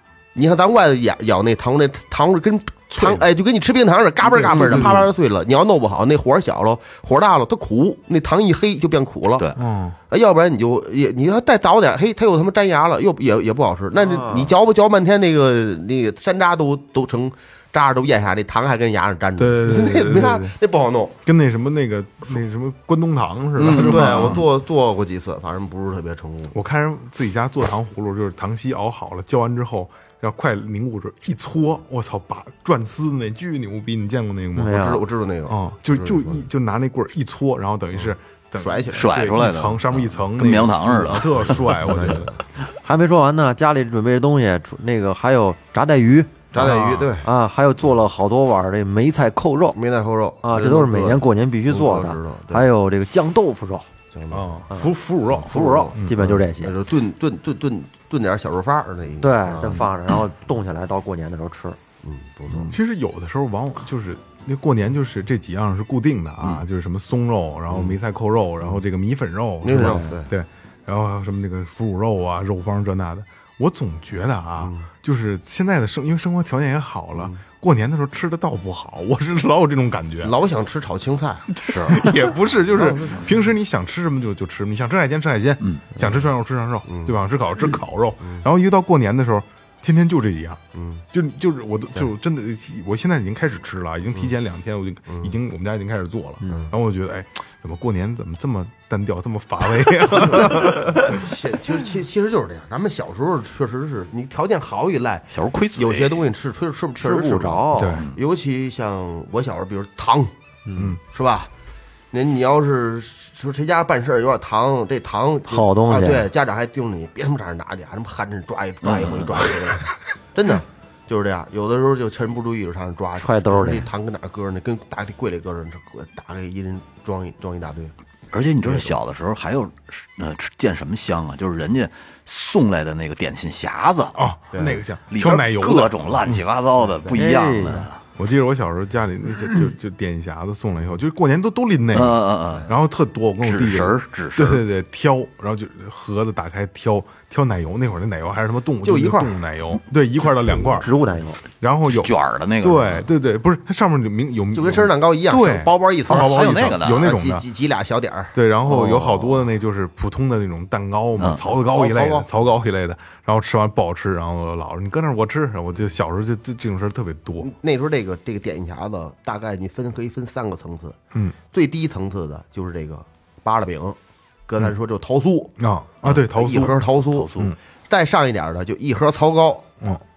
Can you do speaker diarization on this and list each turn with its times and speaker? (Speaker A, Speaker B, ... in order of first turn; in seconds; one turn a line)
Speaker A: 0.3-9.5
Speaker B: 2.9-3.2
Speaker B: 4.2-5.1
Speaker B: 9.6-10.0
Speaker A: 10.1-21.1
Speaker C: 14.0-14.5
Speaker B: 19.4-20.5
Speaker B: 21.2-24.4
Speaker D: 23.6-24.4
Speaker A: 23.7-26.5
Speaker B: 26.5-34.8
Speaker C: 34.5-35.0
Speaker A: 34.7-36.4
Speaker B: 35.5-42.4
Speaker A: 38.6-39.1
Speaker D: 38.9-42.0
Speaker A: 41.9-42.3
Speaker C: 42.8-46.5
Speaker B: 46.5-47.1
Speaker A: 46.5-47.3
Speaker C: 47.2-49.8
Speaker A: 49.7-52.6
Speaker C: 50.4-53.9
Speaker A: 54.1-54.6
Speaker B: 54.3-56.1
Speaker A: 55.3-59.9
Speaker C: 55.5-56.7
Speaker C: 59.2-61.8
Speaker A: 62.0-62.8
Speaker B: 62.7-80.3
Speaker A: 67.7-68.0
Speaker A: 69.6-70.3
Speaker C: 69.7-70.1
Speaker A: 74.6-74.8
Speaker A: 80.2-82.1
Speaker B: 81.5-90.6
Speaker A: 82.7-83.3
Speaker A: 86.9-87.2
Speaker A: 90.7-91.0
Speaker B: 91.1-101.3
Speaker A: 96.5-96.7
Speaker A: 100.1-110.3
Speaker D: 105.3-106.3
Speaker C: 107.0-108.0
Speaker B: 107.7-108.1
Speaker C: 110.7-111.0
Speaker A: 111.0-111.5
Speaker A: 112.1-127.9
Speaker C: 115.5-116.3
Speaker D: 118.8-119.5
Speaker C: 123.2-123.9
Speaker D: 128.3-134.2
Speaker B: 134.1-136.4
Speaker A: 134.5-134.8
Speaker D: 135.1-138.0
Speaker C: 137.1-137.9
Speaker B: 138.2-150.9
Speaker D: 141.9-142.7
Speaker D: 143.4-144.6
Speaker A: 148.8-149.3
Speaker C: 150.6-151.4
Speaker B: 151.6-157.4
Speaker D: 151.9-153.1
Speaker A: 154.5-158.3
Speaker D: 156.1-157.1
Speaker B: 158.3-167.5
Speaker C: 158.7-159.2
Speaker D: 161.2-161.4
Speaker A: 161.6-162.3
Speaker A: 167.4-171.0
Speaker A: 171.5-175.5
Speaker B: 175.6-176.8
Speaker A: 176.1-179.7
Speaker D: 177.1-177.5